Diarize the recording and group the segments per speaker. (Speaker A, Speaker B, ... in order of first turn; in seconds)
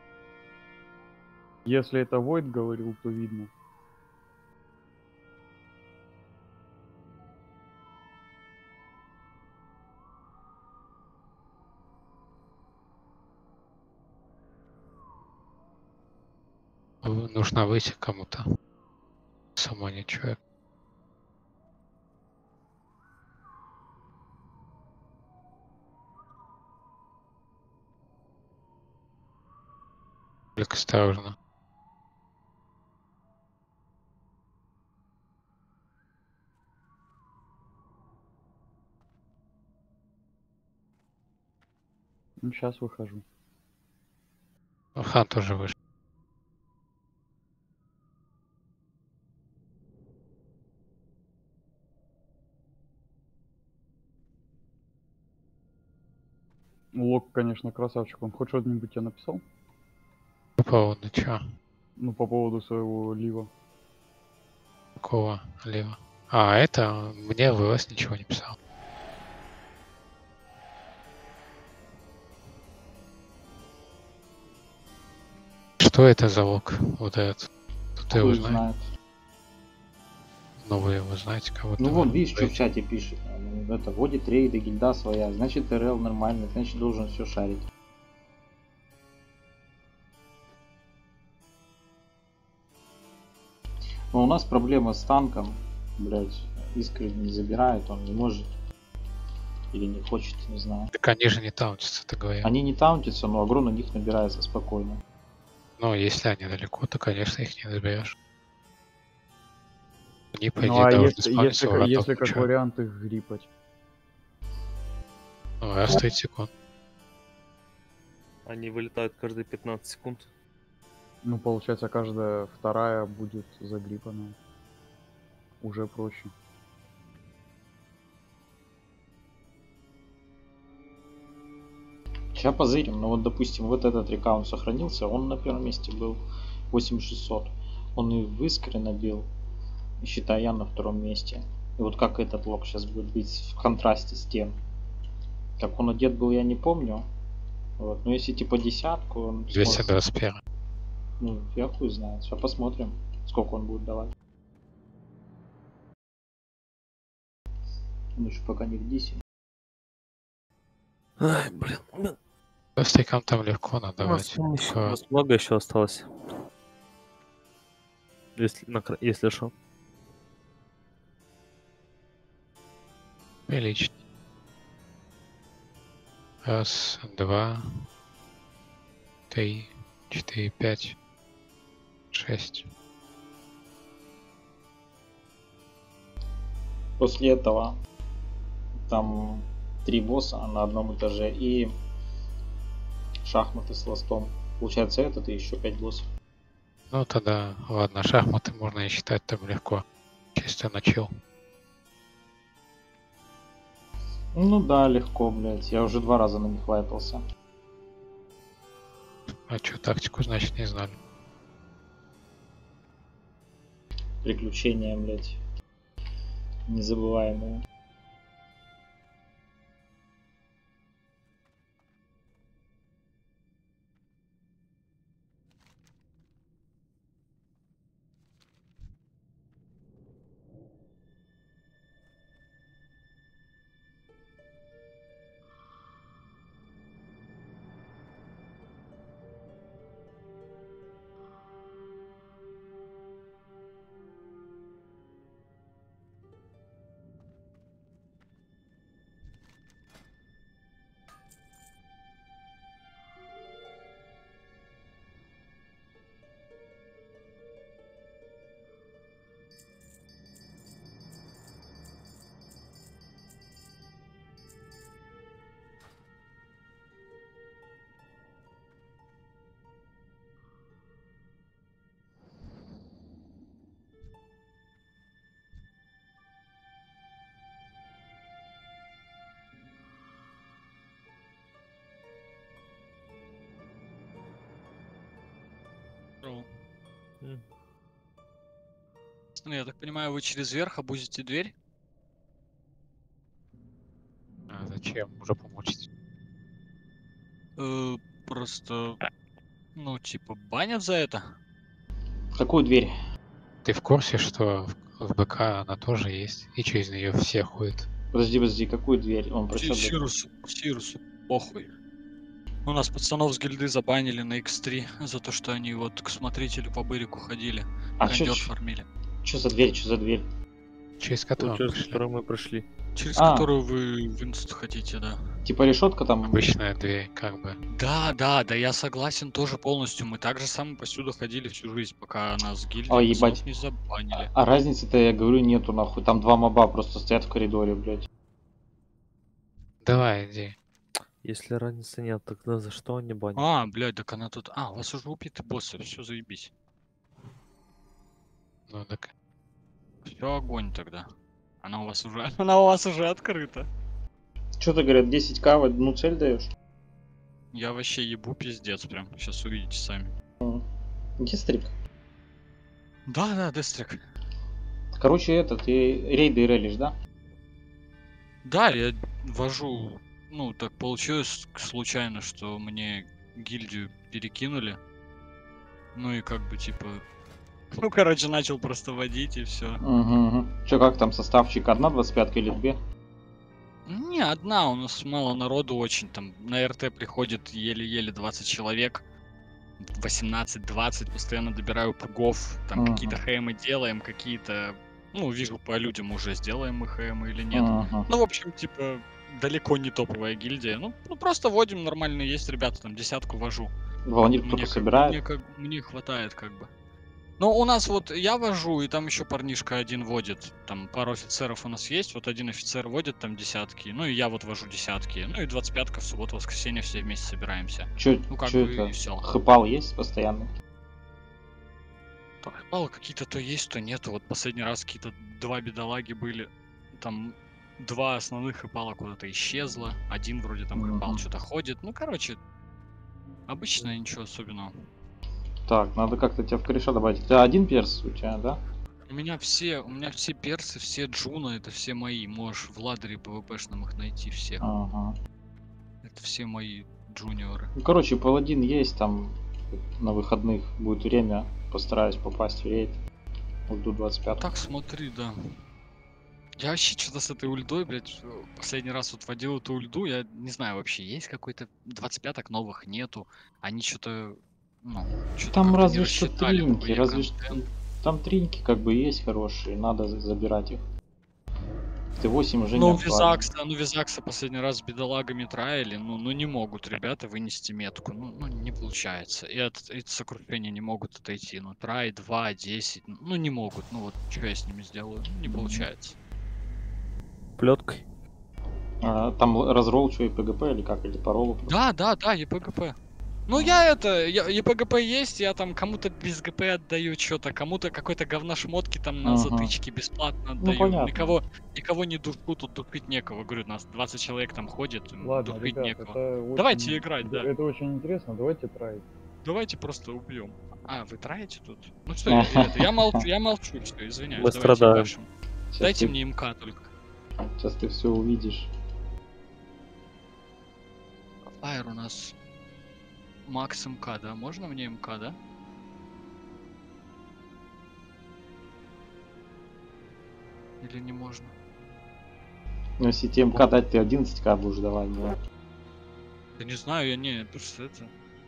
Speaker A: 1.7-3.5, 42.4-43.2, 56.9-59.4, 62.0-63.5, 110.6-113.5, 121.2-124.4, 125.6-126.3, 505.2-509.0
Speaker B: 17.0-18.5, 19.6-20.4, 30.6-31.4, 45.0-45.8, 60.6-61.5, 65.0-68.6, 75.8-78.6, 80.6-82.5, 100.9-102.5, 105.8-108.2, 110.3-112.5, 115.6-116.5, 149.5-150.4, 162.8-165.0, 173.5-173.9, 176.4-177.7, 179.3-181.0, 182.1-182.7, 196.9-199.8, 200.3-201.1, 209.3-211.0, 294.5-295.9, 303.6-307.9, 321.0-322.0, 326.2-327.6, 339.8-340.6, 348.7-349.1
Speaker C: 78.1-78.9, 81.8-87.6, 94.1-98.5, 99.7-100.9, 102.4-105.0, 132.3-139.3, 140.0-144.6, 145.6-147.1, 147.8-149.9, 151.2-154.1, 158.2-159.2, 187.0-187.8, 188.8-191.7, 193.2-196.1, 204.3-207.2, 214.2-215.4, 216.7-217.6, 302.3-302.9, 308.1-310.0, 318.0-318.5, 319.2-320.3, 323.2-323.5, 325.4-326.4, 332.9-333.4, 334.1-338.1, 354.6-356.5, 361.2-361.7, 364.9-367.0, 379.8-382.8, 392.8-393.2, 397.5-398.1, 404.1-405.2, 418.0-420.5, 430.8-431.2, 435.7-438.6, 444.6-445.2, 447.8-453.0, 453.7-454.5, 465.5-470.9, 472.2-473.5, 485.5-485.9, 489.0-491.8, 499.2-499.7, 500.6-501.4, 512.3-513.2, 515.7-516.1, 517.4-518.7, 533.0-535.4
Speaker D: 118.5-120.3, 161.2-162.2, 164.0-166.1, 168.4-169.5, 321.4-322.7, 341.2-343.4, 487.6-488.0, 514.4-515.1
Speaker E: 286.2-286.5, 289.4-291.5, 297.6-299.0, 299.8-301.4, 309.6-311.7, 312.6-318.9, 322.9-325.3, 327.7-334.3, 343.4-346.5, 350.1-351.1, 351.6-353.7, 357.5-360.1, 363.1-364.0, 368.4-374.8, 375.9-377.0, 377.7-379.8, 383.9-389.0, 389.8-403.7, 404.4-406.7, 407.4-419.2, 422.4-432.4, 433.5-434.7, 439.1-444.6, 446.0-447.7, 454.3-455.4, 456.6-467.6, 472.8-486.2, 491.7-493.0, 493.5-507.5, 509.4-515.3, 515.8-516.9, 521.5-522.4, 523.5-525.4, 530.8-531.5, 536.6-538.1